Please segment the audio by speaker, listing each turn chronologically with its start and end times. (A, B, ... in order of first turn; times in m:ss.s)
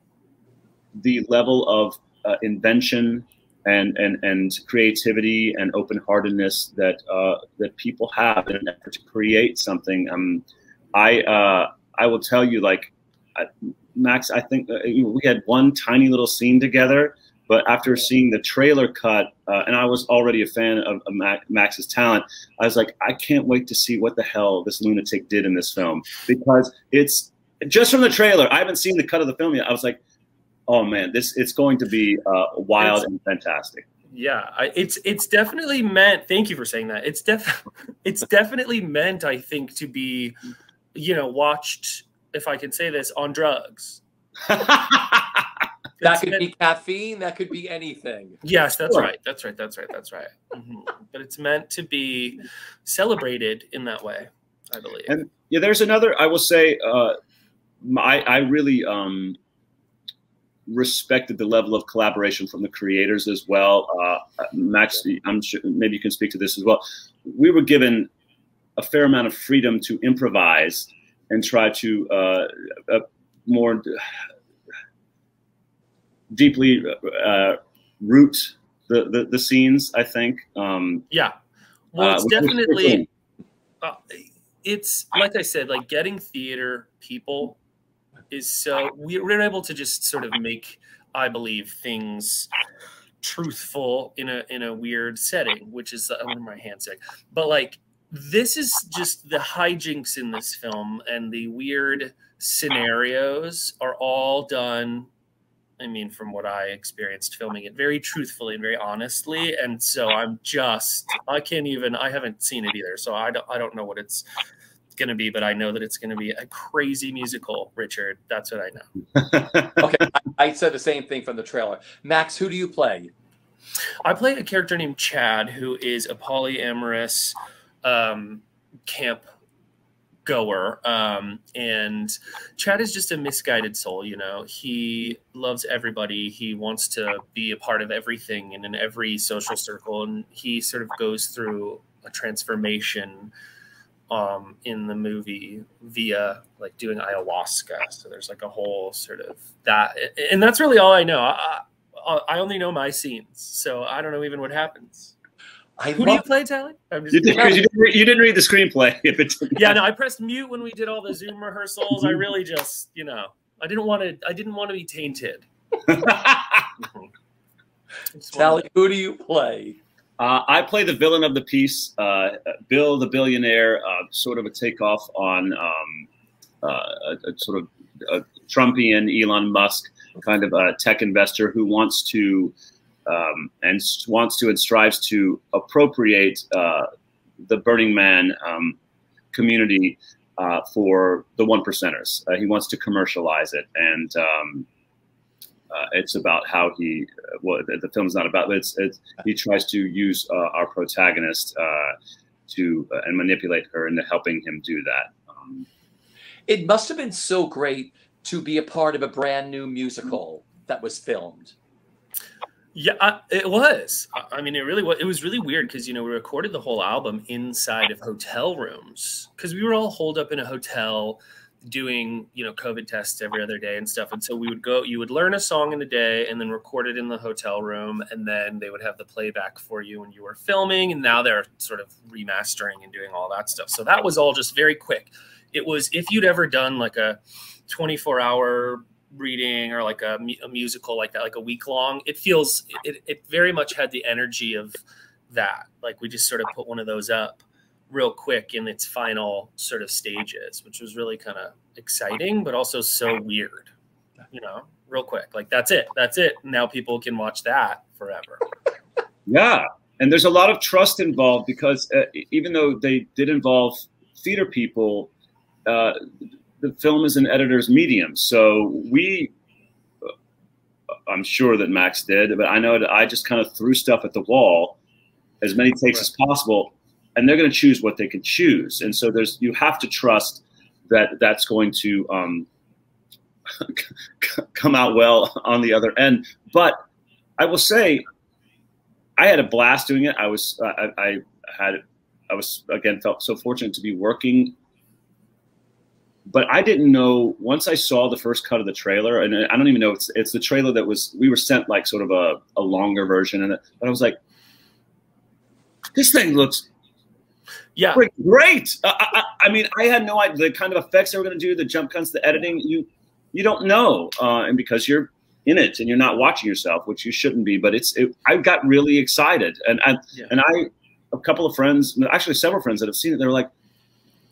0:01.0-0:30.0 A
0:30.7-0:33.8 A
0:32.8-0:33.0 B
0:34.1-0:40.4 B
0:40.9-0:44.0 B
0:44.5-0:45.4 A
0:46.0-0:46.5 B
0:46.0-0:48.4 C
0:48.4-0:55.1 B
0:55.1-0:57.2 A
0:57.8-0:59.4 A
1:00.7-1:08.1 A
1:08.8-1:14.0 A
1:16.3-1:21.1 A
1:21.1-1:21.3 B
1:21.9-1:23.0 B
1:22.0-1:23.1 A
1:23.8-1:27.6 B
1:28.3-1:32.5 B
1:33.2-1:45.1 B
1:45.8-1:54.2 B
1:55.0-1:58.9 B
1:59.1-1:59.8 A
1:59.8-2:03.1 C
2:04.0-2:09.2 B
2:10.2-2:23.3 B
2:24.1-2:35.1 B
2:35.8-2:36.2 C
2:36.0-2:37.6 B
2:37.1-2:39.8 A
2:37.3-2:37.6 C
2:39.5-2:45.4 B
2:45.9-2:46.7 A
2:46.8-2:47.1 B
2:48.1-2:48.7 B
2:48.3-2:49.8 C
2:50.2-2:56.0 A
2:56.6-3:02.5 A
3:03.0-3:06.9 A
3:07.4-3:08.8 A
3:09.3-3:14.7 A
3:15.7-3:21.9 A
3:22.5-3:25.6 A
3:26.5-3:31.5 C
3:32.7-4:13.7 B
4:14.3-4:18.4 B
4:19.3-4:25.1 A
4:25.6-4:26.0 A
4:26.6-4:29.3 A
4:31.1-4:34.8 A
4:35.4-4:42.5 A
4:43.6-4:46.8 A
4:47.4-4:48.0 A
4:49.2-4:54.6 A
4:56.3-5:04.2 A
5:05.9-5:06.6 A
5:07.8-5:08.0 B
5:07.9-5:23.5 A